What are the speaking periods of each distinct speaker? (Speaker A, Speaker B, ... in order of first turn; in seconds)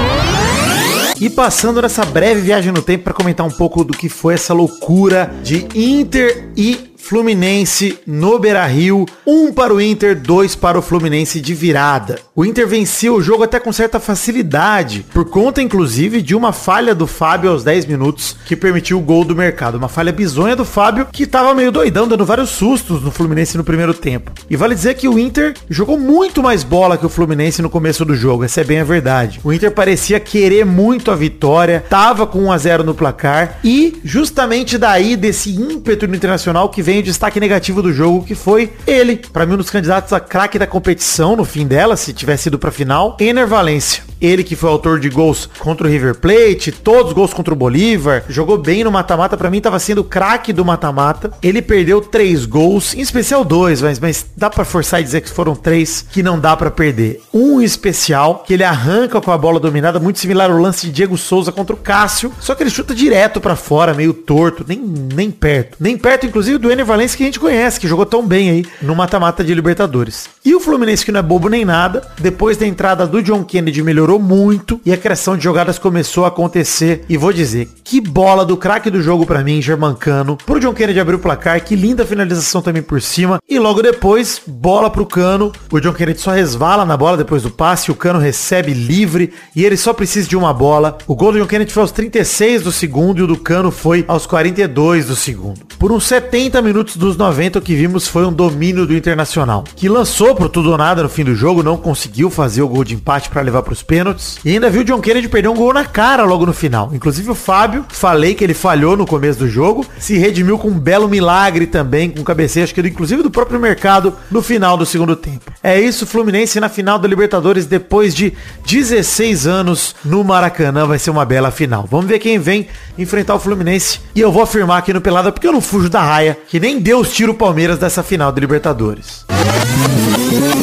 Speaker A: 1.2-129.2